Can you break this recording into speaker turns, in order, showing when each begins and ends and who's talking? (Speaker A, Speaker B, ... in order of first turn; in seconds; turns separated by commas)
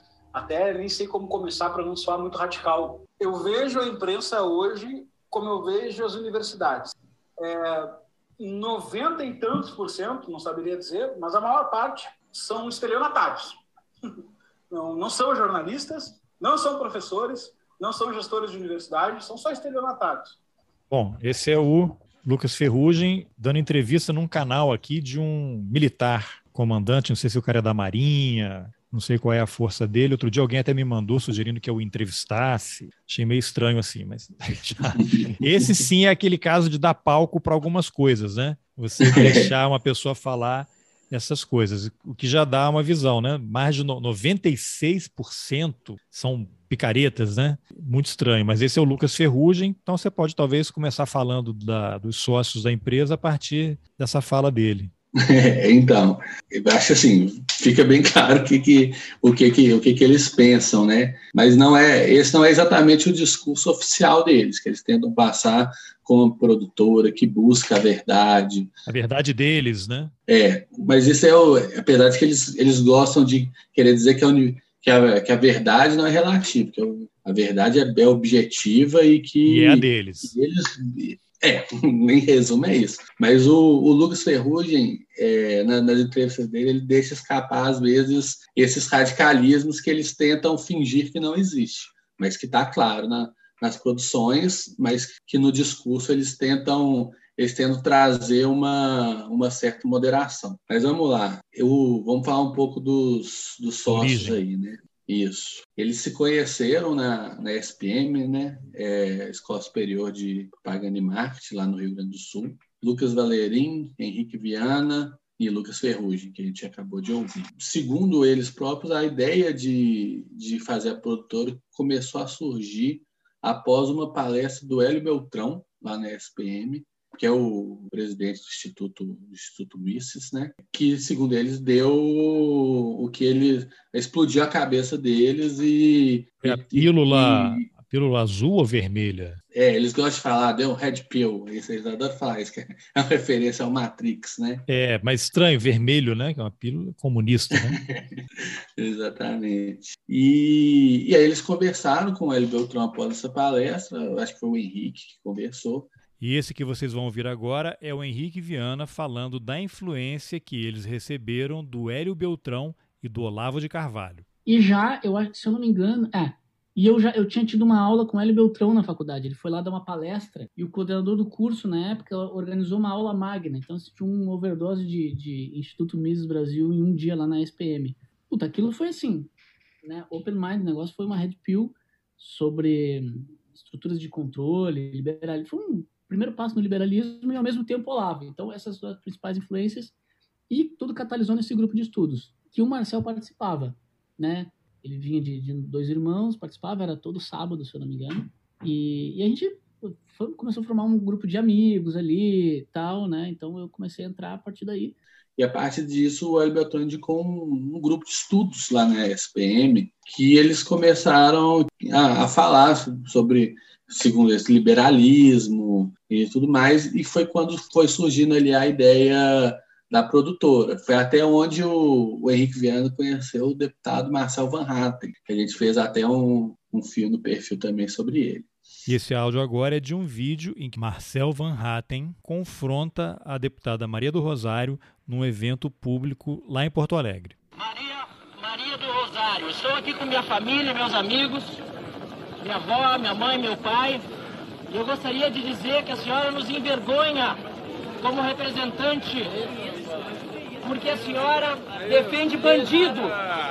Speaker A: 0.3-13.6, Speaker A: 14.7-20.4, Speaker B: 20.9-54.9, Speaker C: 35.0-35.9, Speaker C: 39.0-39.5, Speaker C: 55.2-68.7, Speaker B: 68.9-70.1, Speaker C: 70.3-137.7, Speaker B: 79.5-80.3, Speaker B: 103.9-104.4, Speaker B: 136.4-139.4, Speaker C: 139.5-144.6, Speaker B: 144.7-147.8, Speaker C: 147.6-155.9, Speaker B: 156.2-164.2, Speaker D: 164.5-179.3, Speaker D: 179.8-190.0, Speaker D: 190.5-205.0, Speaker C: 205.4-228.5, Speaker B: 228.9-237.4, Speaker E: 237.6-241.6, Speaker E: 242.4-244.1, Speaker E: 244.7-247.4, Speaker E: 248.0-249.5, Speaker E: 250.6-253.2